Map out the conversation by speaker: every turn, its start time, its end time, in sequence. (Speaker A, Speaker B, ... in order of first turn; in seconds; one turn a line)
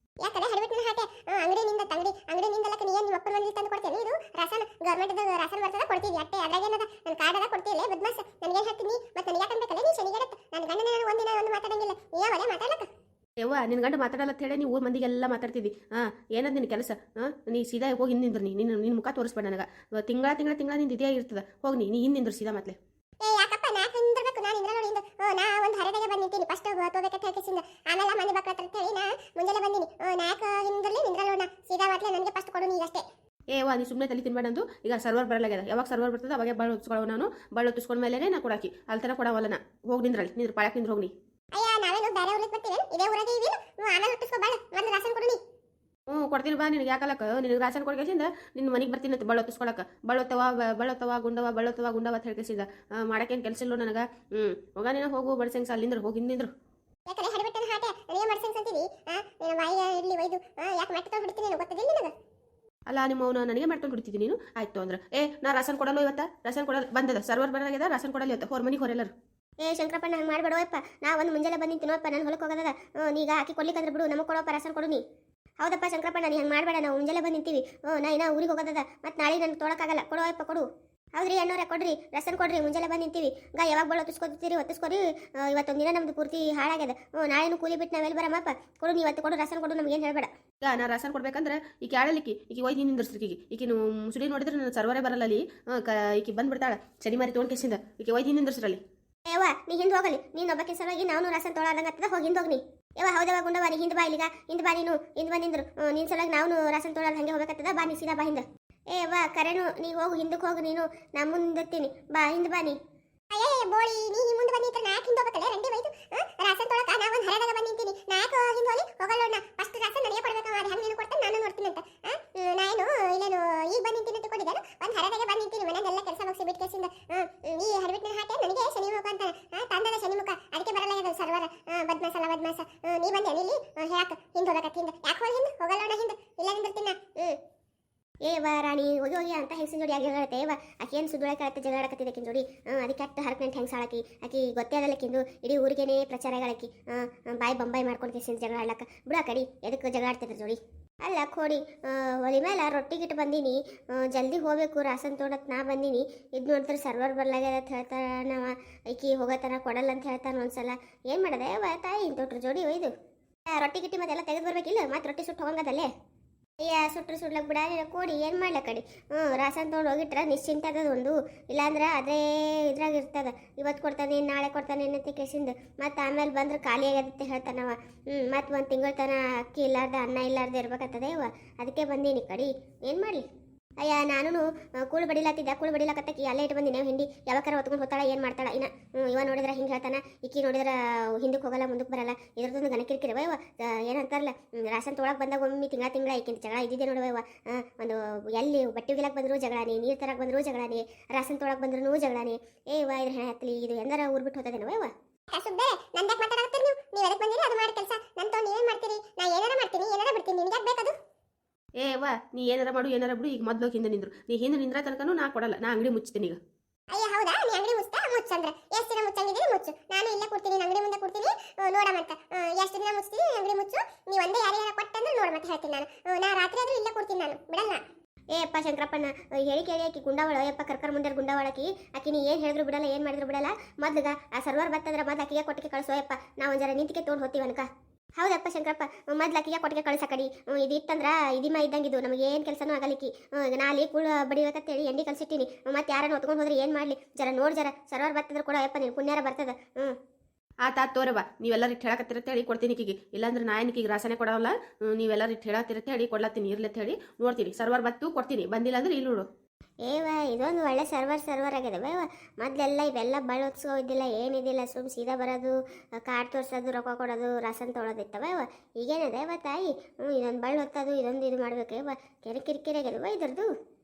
Speaker A: 0.2-12.9
Speaker B: 13.4-22.8
Speaker A: 23.2-33.0
Speaker B: 33.5-41.1
Speaker A: 41.5-45.4
Speaker B: 46.1-56.5
Speaker A: 57.1-62.1
Speaker B: 62.9-69.1
Speaker C: 69.6-75.0
Speaker C: 75.6-80.7
Speaker C: 81.2-90.3
Speaker B: 90.6-98.8
Speaker C: 99.3-112.8
Speaker A: 113.3-137.3
Speaker C: 138.2-162.9
Speaker C: 163.5-165.9
Speaker C: 166.6-183.2
Speaker C: 183.8-204.9
Speaker A: 205.3-210.9
Speaker B: 211.8-216.4
Speaker A: 216.9-227.8
Speaker C: 228.3-237.7
Speaker C: 238.2-250.0
Speaker B: 250.6-259.3
Speaker C: 259.9-265.6
Speaker C: 266.1-273.5